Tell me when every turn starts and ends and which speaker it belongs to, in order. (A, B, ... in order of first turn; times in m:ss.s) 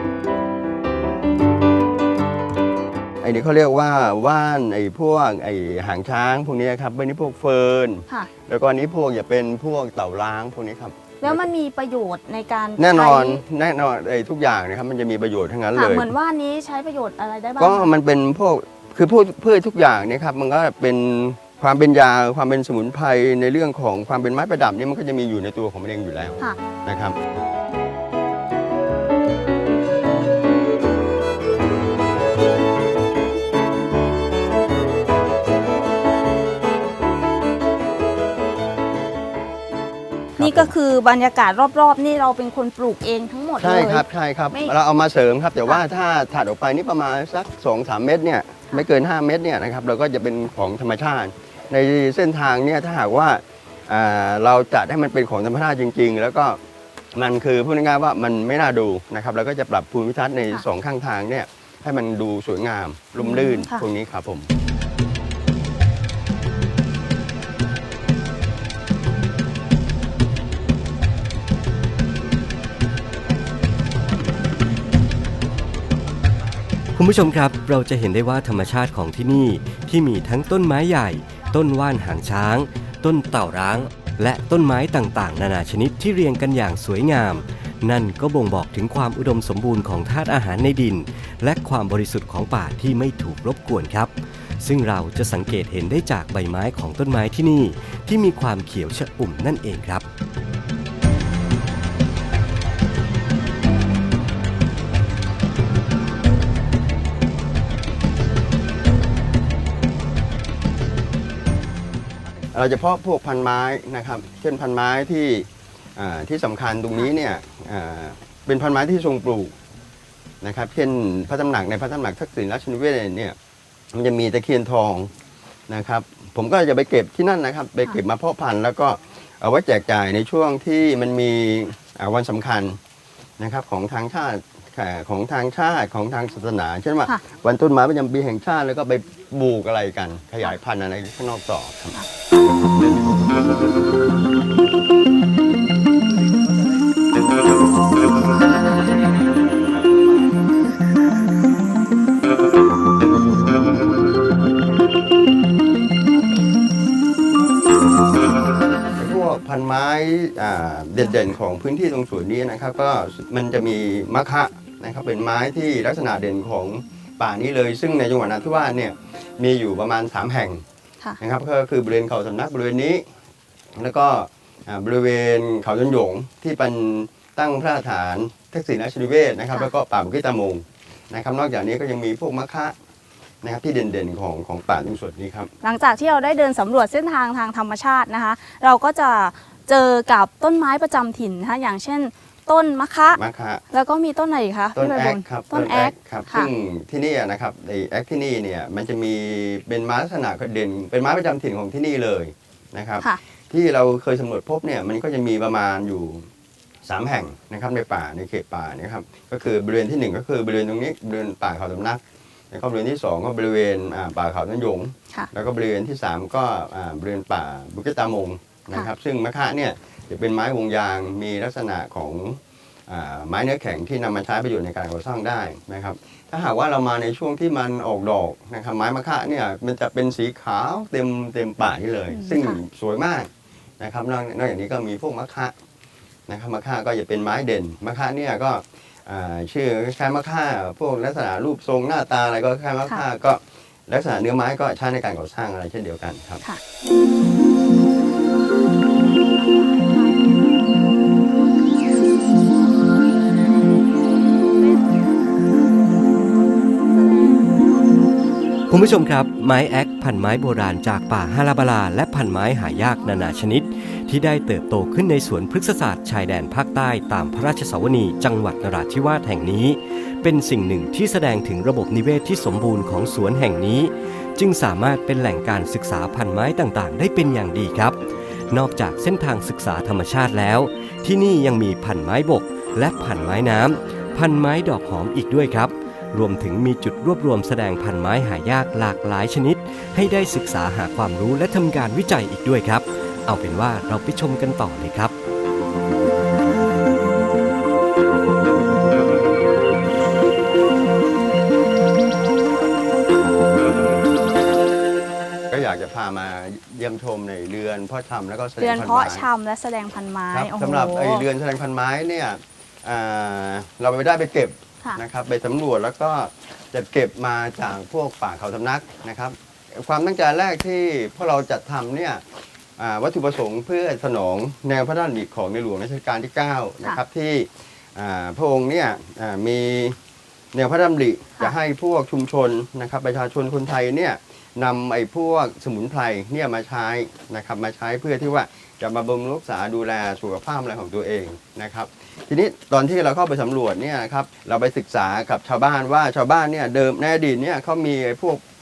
0:03.2-0:11.4 A
0:11.2-0:13.4 B
0:12.8-0:16.1 A
0:15.7-0:17.9 B
0:17.6-0:27.2 A
0:40.4-0:40.7 A
0:40.4-0:44.7 B
0:43.6-0:56.6 A
0:57.1-1:04.5 A
1:03.2-1:03.8 B
1:16.9-1:40.0 C
1:52.5-1:59.5 A
2:00.4-2:03.4 A
2:03.9-2:05.1 A
2:05.7-2:12.8 A
2:13.4-2:22.0 A
2:29.6-2:30.3 A
2:38.9-2:50.6 A
2:51.2-2:53.0 A
2:53.7-3:02.7 A
3:03.4-3:05.5 A
3:05.6-3:16.5 B
3:13.2-3:13.6 A
3:14.8-3:26.3 A
3:26.8-3:55.5 A
3:52.1-3:52.6 B
3:56.3-4:06.4 A
4:09.5-4:10.6 B
4:14.6-4:15.4 B
4:16.9-4:17.8 B
4:18.7-4:55.1 C
5:05.5-5:09.2 A
5:08.6-5:11.2 B
5:10.3-5:30.0 A
5:30.5-5:48.4 A